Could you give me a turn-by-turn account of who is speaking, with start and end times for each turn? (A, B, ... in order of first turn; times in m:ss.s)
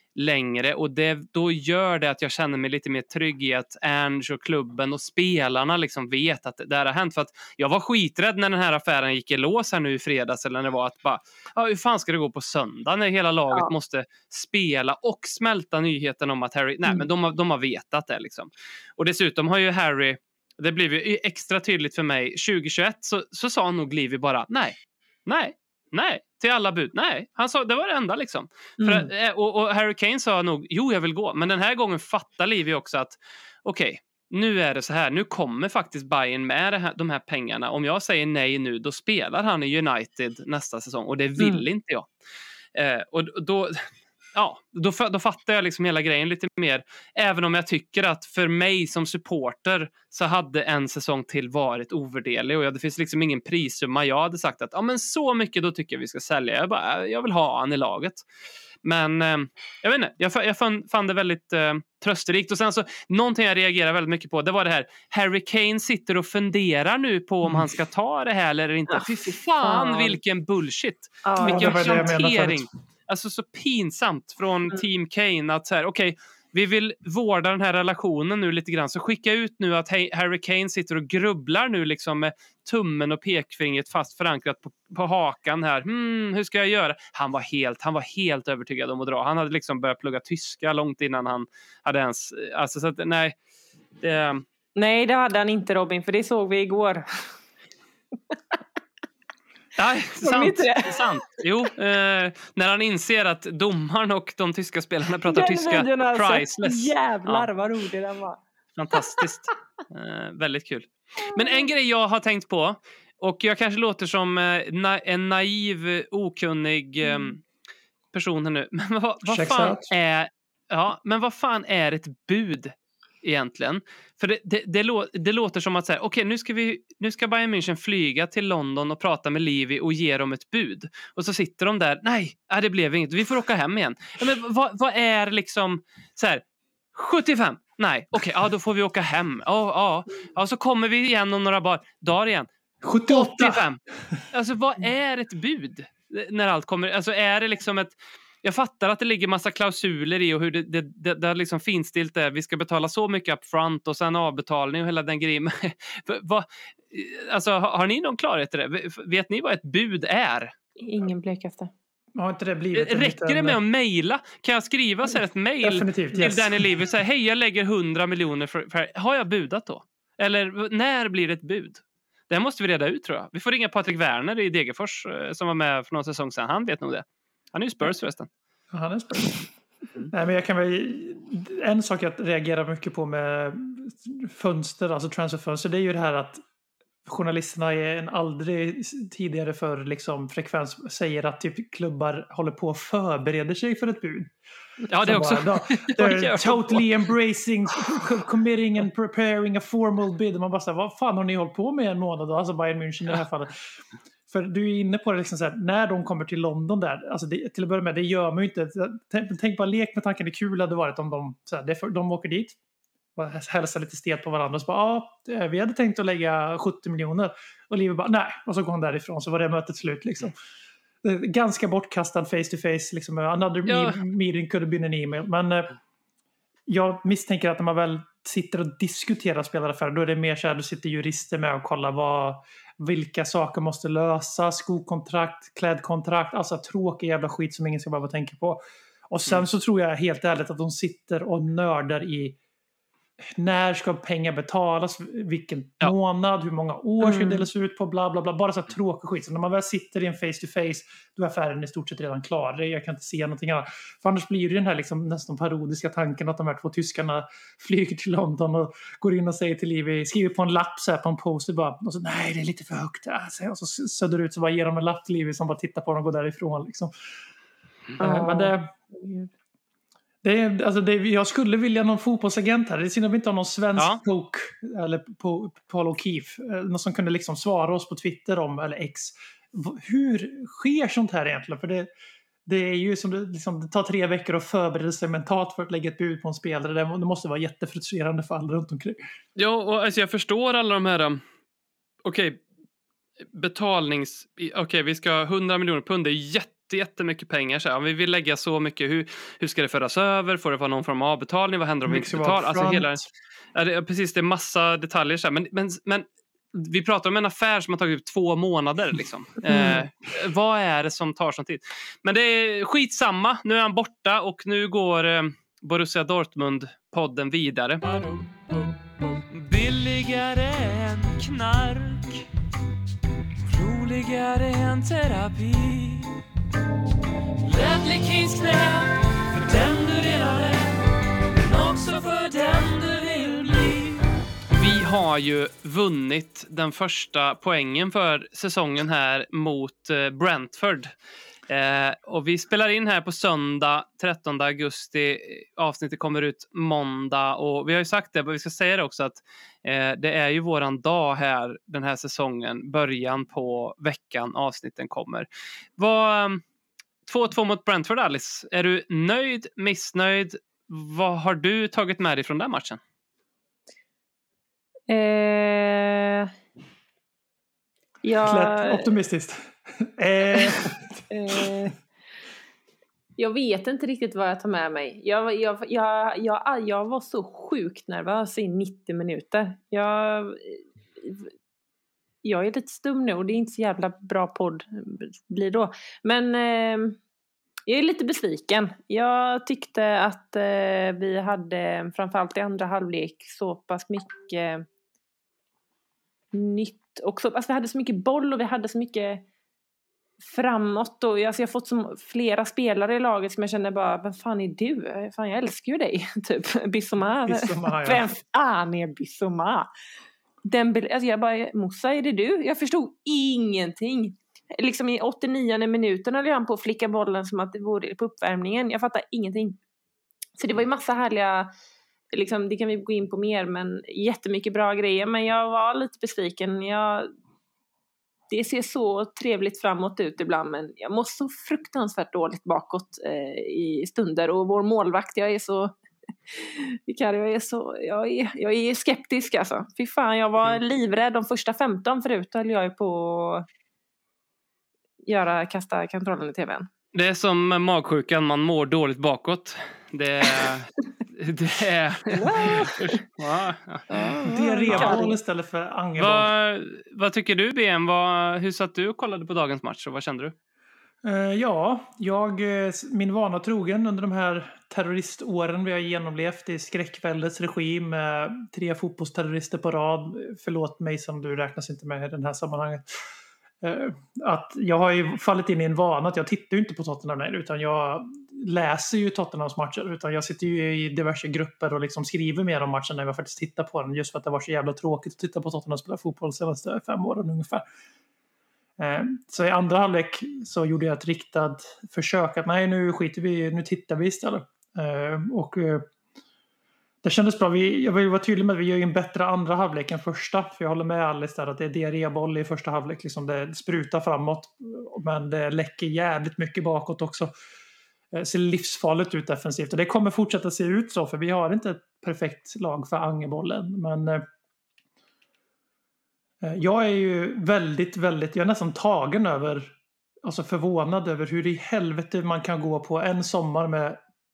0:00.2-0:42.1 A
0:28.8-0:29.1 B
0:41.4-0:41.6 B
0:42.8-0:58.2 A
0:58.8-1:33.4 A
1:09.6-1:10.2 B
1:11.3-1:12.2 B
1:11.4-1:12.7 C
1:34.0-1:34.4 A
1:34.8-1:37.2 B
1:39.8-1:47.5 A
1:40.2-1:41.2 B
1:45.3-1:48.4 B
1:48.8-1:57.4 A
1:48.9-1:49.2 B
1:51.3-1:51.6 B
1:58.1-2:16.4 A
1:59.2-1:59.9 C
2:16.9-2:22.5 A
2:22.8-2:23.6 C
2:23.0-2:23.8 A
2:24.3-2:40.5 A
2:40.8-2:41.7 B
2:42.2-2:43.6 C
2:42.7-2:58.3 A
2:45.6-2:46.8 C
2:58.7-2:59.5 C
3:00.1-3:06.4 C
3:07.0-3:14.3 C
3:14.9-3:16.9 A
3:15.0-3:23.7 C
3:24.3-3:32.6 C
3:33.2-3:40.4 C
3:41.0-3:45.7 C
3:43.7-3:44.0 A
3:46.7-4:02.4 C
4:03.2-4:26.9 C
4:07.0-4:07.5 B
4:28.0-4:29.3 C
4:28.0-4:28.5 B
4:30.2-4:41.9 C
4:42.5-4:49.0 C
4:49.4-4:51.2 A
4:52.0-4:52.4 A
4:53.3-5:03.0 A
5:01.9-5:03.0 C
5:03.6-5:22.3 A
5:09.5-5:09.8 B
5:23.5-5:26.2 A
5:27.4-5:34.0 A
5:34.6-5:40.9 A
5:41.5-5:55.3 A
5:55.8-5:56.4 A
5:57.1-6:02.8 A
6:04.9-6:06.3 B
6:08.0-6:08.9 B
6:08.2-6:11.5 C
6:11.1-6:11.8 B
6:13.2-6:21.3 B
6:22.2-6:27.0 B
6:27.7-6:34.6 B
6:36.3-6:39.2 B
6:40.2-6:49.7 B
6:47.3-6:48.0 C
6:50.4-6:59.6 B
7:00.4-7:01.5 B
7:02.1-7:07.1 B
7:08.3-7:15.7 B
7:16.3-7:23.4 B
7:25.0-7:26.7 B
7:26.9-7:35.0 A
7:32.1-7:33.0 B
7:33.9-7:35.2 B
7:34.3-7:36.3 C
7:36.0-7:40.4 A
7:41.0-7:53.0 C
7:53.6-8:07.6 C
8:08.8-8:15.9 C
8:17.0-8:27.3 C
8:28.1-8:34.2 C
8:36.4-8:44.0 C